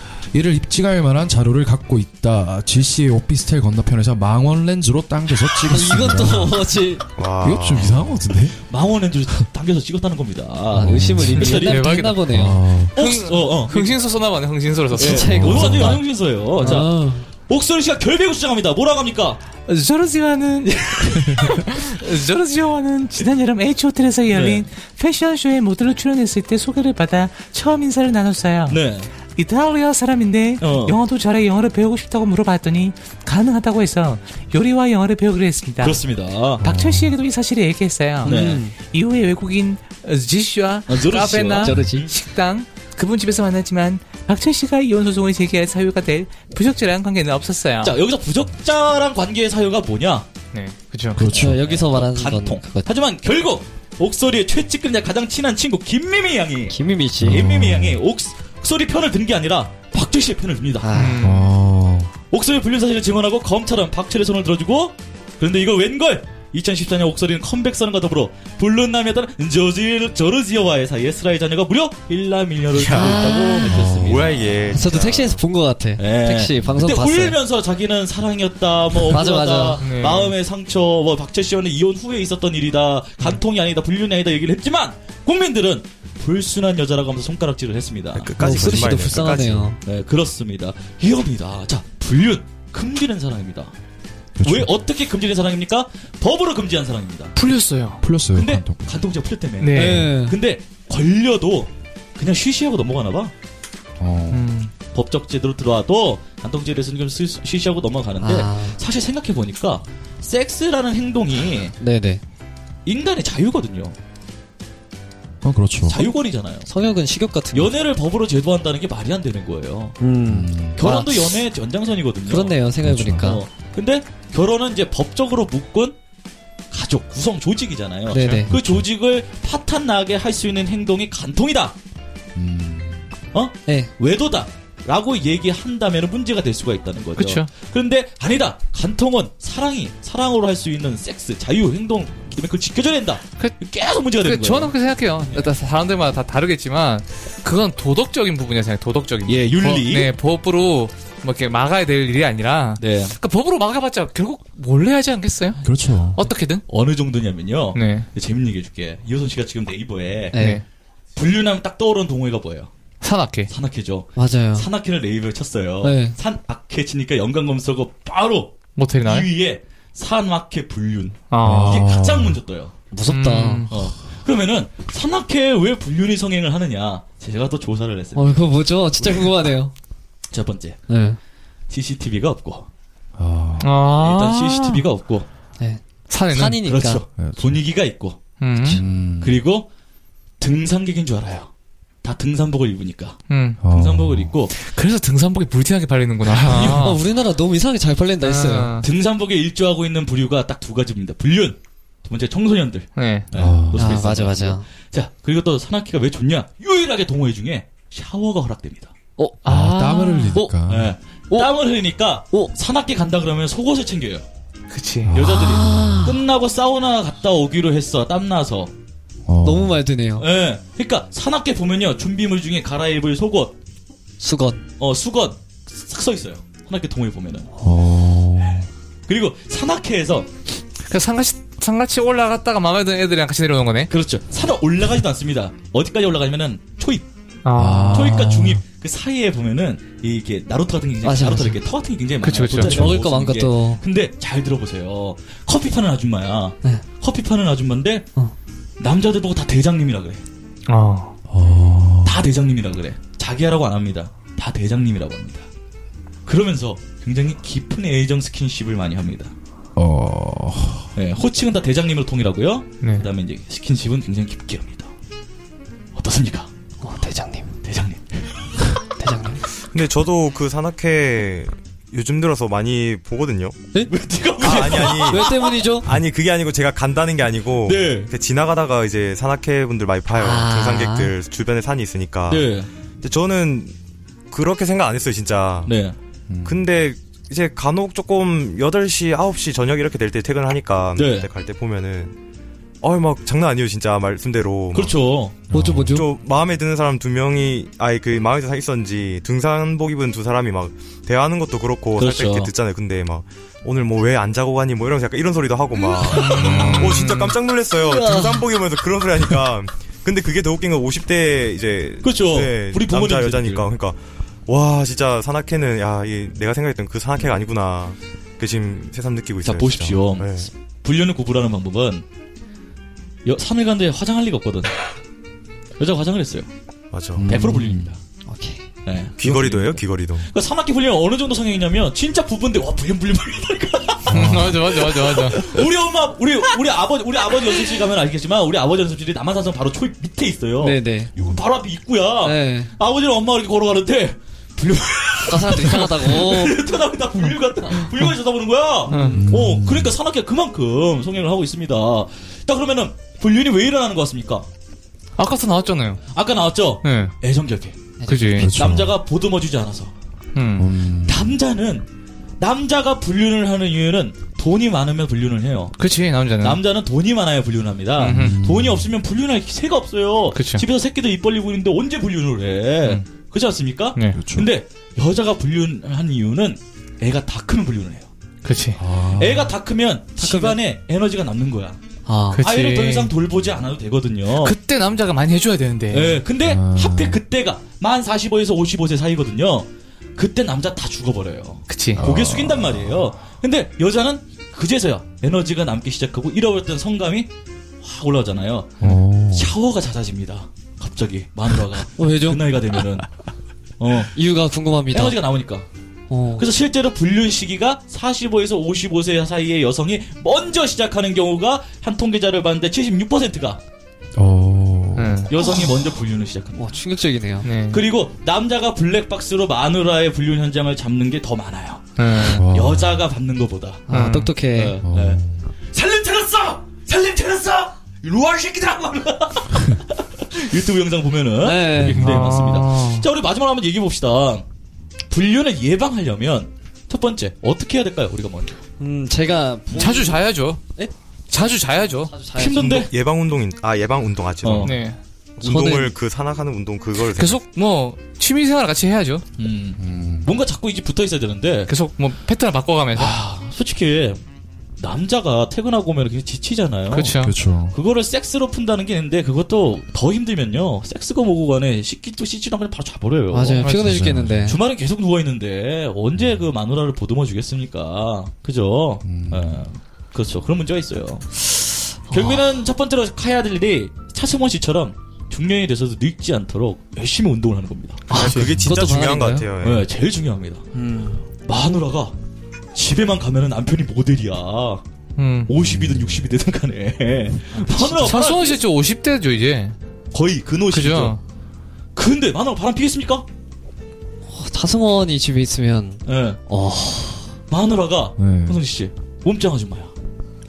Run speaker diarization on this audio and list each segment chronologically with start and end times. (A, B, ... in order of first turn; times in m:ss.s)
0:00.3-0:06.7 A
0:05.7-0:07.0 B
0:07.2-0:08.1 C
0:07.4-0:08.6 A
0:08.7-0:11.9 D
0:10.7-0:11.5 A
0:10.7-0:12.6 B
0:11.4-0:12.3 E
0:12.3-0:13.0 A
0:13.0-0:14.0 D
0:13.0-0:16.0 E
0:15.0-0:16.0 B
0:15.0-0:17.0 D
0:15.2-0:16.0 A
0:16.6-0:17.3 B
0:17.5-0:19.4 D
0:19.7-0:28.8 F
0:24.3-0:24.6 D
0:28.7-0:29.1 D
0:29.4-0:36.0 F
0:30.6-0:31.0 D
0:35.8-0:36.7 D
0:36.6-0:37.2 A
0:36.6-0:48.0 F
0:38.2-0:38.8 B
0:38.2-0:38.6 D
0:40.9-0:42.1 D
0:41.6-0:42.1 B
0:47.8-0:50.3 D
0:50.5-0:51.4 E
0:51.2-0:51.7 A
0:51.3-0:52.9 B
0:51.3-1:01.0 D
0:56.7-0:57.6 B
0:57.2-0:58.0 A
1:00.8-1:01.2 B
1:00.9-1:01.5 E
1:01.2-1:02.1 A
1:02.3-1:14.6 D
1:12.7-1:15.4 C
1:12.9-1:13.8 B
1:13.6-1:14.4 A
1:14.7-1:17.4 B
1:16.0-1:28.9 D
1:19.1-1:19.8 B
1:19.8-1:20.4 E
1:28.1-1:29.7 C
1:28.4-1:29.8 B
1:29.8-1:33.7 D
1:34.4-1:34.7 A
1:34.4-1:37.4 D
1:37.4-1:38.0 E
1:38.0-1:39.1 A
1:38.3-1:43.3 D
1:39.6-1:40.1 E
1:39.7-1:40.4 B
1:44.0-1:44.4 A
1:44.3-1:44.7 E
1:44.9-1:51.8 D
1:48.2-1:48.8 B
1:51.8-1:52.2 B
1:52.8-1:54.0 D
1:55.4-1:56.1 A
1:55.9-1:56.7 D
1:56.6-1:57.8 B
1:57.5-2:00.0 D
2:00.0-2:01.4 B
2:00.3-2:00.8 A
2:00.8-2:02.6 D
2:02.3-2:03.4 B
2:02.8-2:03.4 A
2:03.1-2:06.0 D
2:06.7-2:11.8 D
2:08.1-2:08.5 B
2:08.1-2:08.4 E
2:08.5-2:08.9 A
2:12.4-2:13.1 A
2:13.3-2:24.7 D
2:13.7-2:13.9 B
2:17.2-2:17.5 E
2:24.2-2:35.6 E
2:29.3-2:30.1 D
2:32.8-2:33.2 D
2:35.6-2:36.2 A
2:36.1-2:36.6 E
2:36.7-2:40.4 D
2:37.7-2:38.1 E
2:40.3-2:40.6 B
2:40.4-2:40.6 E
2:41.2-2:42.7 D
2:43.0-2:43.5 E
2:43.5-2:52.7 D
2:44.2-2:44.7 B
2:45.8-2:46.2 B
2:48.8-2:49.3 E
2:51.3-2:51.9 E
2:51.4-2:52.4 A
2:52.9-2:53.7 B
2:53.1-2:53.8 E
2:53.7-2:59.5 D
2:58.1-2:59.7 B
3:00.3-3:00.8 D
3:00.9-3:01.2 B
3:01.7-3:02.7 D
3:03.2-3:03.8 A
3:03.6-3:04.9 E
3:04.0-3:05.3 D
3:05.6-3:07.0 B
3:06.1-3:06.6 E
3:06.6-3:08.2 D
3:07.2-3:07.6 A
3:08.4-3:08.8 E
3:08.6-3:09.4 A
3:09.2-3:09.7 D
3:10.4-3:11.5 D
3:12.0-3:14.6 D
3:13.3-3:13.6 E
3:13.6-3:14.4 A
3:14.6-3:17.0 E
3:16.2-3:17.0 D
3:16.7-3:18.8 B
3:18.2-3:18.9 E
3:18.8-3:28.9 D
3:23.0-3:23.3 E
3:23.3-3:24.0 A
3:23.7-3:24.7 B
3:29.4-3:30.4 E
3:29.4-3:31.0 A
3:30.6-3:34.2 D
3:34.7-3:35.1 E
3:35.0-3:35.5 A
3:35.1-3:38.7 D
3:35.2-3:36.2 B
3:39.3-3:39.8 A
3:39.4-3:40.3 B
3:40.2-3:43.6 D
3:44.2-3:44.6 B
3:44.8-3:47.5 D
3:47.6-3:48.7 A
3:49.1-3:50.3 D
3:50.9-3:53.9 E
3:53.9-3:57.1 D
3:57.4-3:58.2 E
3:57.5-3:58.6 A
3:57.9-4:08.1 D
4:01.0-4:01.6 B
4:02.2-4:02.9 E
4:02.6-4:03.8 B
4:08.8-4:10.2 D
4:10.7-4:11.1 E
4:11.3-4:12.2 A
4:12.0-4:15.5 D
4:16.3-4:19.3 D
4:19.8-4:20.9 A
4:21.0-4:24.9 D
4:22.8-4:23.1 E
4:26.0-4:26.5 D
4:26.8-4:27.6 B
4:27.6-4:28.5 D
4:29.0-4:29.4 B
4:29.7-4:33.6 C
4:33.9-4:35.6 D
4:34.4-4:43.8 C
4:34.4-4:35.9 B
4:37.6-4:38.1 D
4:40.1-4:41.1 B
4:42.3-4:42.7 D
4:44.3-4:45.7 C
4:45.7-4:46.0 D
4:46.3-4:46.6 A
4:46.4-4:52.1 C
4:51.0-4:51.3 D
4:52.8-4:55.0 C
4:54.7-4:55.4 D
4:55.5-4:56.0 A
4:55.5-4:56.1 B
4:55.9-5:20.5 C
5:02.0-5:02.5 D
5:05.8-5:07.0 D
5:06.1-5:07.4 E
5:07.7-5:08.4 D
5:12.0-5:13.7 D
5:19.4-5:22.0 D
5:23.2-5:24.7 D
5:25.8-5:26.5 D
5:26.9-5:27.4 C
5:27.2-5:27.9 A
5:27.3-5:28.0 D
5:28.3-5:28.6 B
5:28.8-5:54.5 D
5:29.2-5:30.3 C
5:34.1-5:34.8 A
5:34.1-5:35.5 E
5:40.6-5:41.1 B
5:42.2-5:42.7 B
5:45.3-5:46.6 B
5:48.9-5:49.3 E
5:48.9-5:49.2 B
5:49.1-5:50.0 A
5:55.2-5:56.0 E
5:56.1-5:57.8 D
5:56.8-5:57.2 E
5:58.0-5:58.5 B
5:58.1-5:58.6 E
5:58.4-5:59.0 A
5:58.4-5:59.9 D
6:00.4-6:00.7 E
6:00.6-6:01.4 A
6:01.1-6:01.9 D
6:02.4-6:05.8 D
6:05.8-6:06.6 E
6:06.4-6:18.1 D
6:08.0-6:08.5 E
6:08.1-6:08.9 A
6:10.3-6:10.6 E
6:14.0-6:14.2 E
6:14.1-6:14.5 A
6:18.4-6:18.8 E
6:18.8-6:19.6 A
6:19.0-6:21.8 D
6:20.2-6:20.6 B
6:22.1-6:22.4 B
6:22.3-6:23.1 E
6:22.4-6:24.6 D
6:24.3-6:26.2 E
6:25.9-6:37.3 D
6:26.4-6:27.2 A
6:31.7-6:32.0 E
6:32.0-6:33.1 A
6:37.8-6:43.1 D
6:38.8-6:39.5 A
6:42.0-6:42.6 B
6:43.8-6:44.1 D
6:44.1-6:45.2 B
6:44.9-6:45.7 D
6:46.1-6:46.5 B
6:46.4-6:53.6 D
6:54.2-6:55.3 A
6:55.0-6:55.3 E
6:55.3-6:56.6 D
6:56.6-6:57.5 B
6:57.4-6:57.8 E
6:57.7-7:03.8 D
7:02.0-7:02.5 E
7:02.2-7:03.1 A
7:03.9-7:04.4 E
7:03.9-7:04.8 B
7:04.5-7:05.2 D
7:04.8-7:05.5 A
7:05.7-7:14.4 D
7:11.4-7:12.1 B
7:11.8-7:12.4 A
7:11.9-7:13.1 E
7:15.1-7:18.6 D
7:18.8-7:20.2 B
7:19.7-7:20.6 E
7:21.3-7:22.1 E
7:22.1-7:22.9 B
7:22.4-7:22.9 D
7:22.6-7:24.8 C
7:24.4-7:24.8 D
7:24.6-7:25.0 E
7:25.4-7:27.4 C
7:25.4-7:26.0 B
7:27.1-7:29.2 E
7:29.4-7:31.7 D
7:29.8-7:30.3 A
7:31.7-7:33.2 E
7:33.0-7:34.2 D
7:34.8-7:37.2 D
7:36.9-7:37.4 E
7:37.1-7:37.8 A
7:37.7-7:43.7 D
7:43.3-7:44.6 B
7:43.6-7:43.9 E
7:43.8-7:44.6 A
7:44.5-7:58.2 D
7:49.0-7:49.7 A
7:52.1-7:52.4 B
7:58.1-7:59.5 B
7:58.1-7:59.9 C
7:58.4-7:58.6 A
7:59.6-8:00.6 D
8:00.7-8:01.2 B
8:01.4-8:02.2 D
8:02.7-8:04.8 D
8:05.2-8:05.5 E
8:05.5-8:08.6 D
8:05.6-8:06.2 A
8:07.7-8:08.1 B
8:07.8-8:09.8 E
8:10.1-8:11.2 D
8:10.7-8:11.2 E
8:12.0-8:13.3 D
8:14.3-8:17.3 B
8:16.1-8:16.4 D
8:17.5-8:19.9 D
8:18.2-8:18.6 A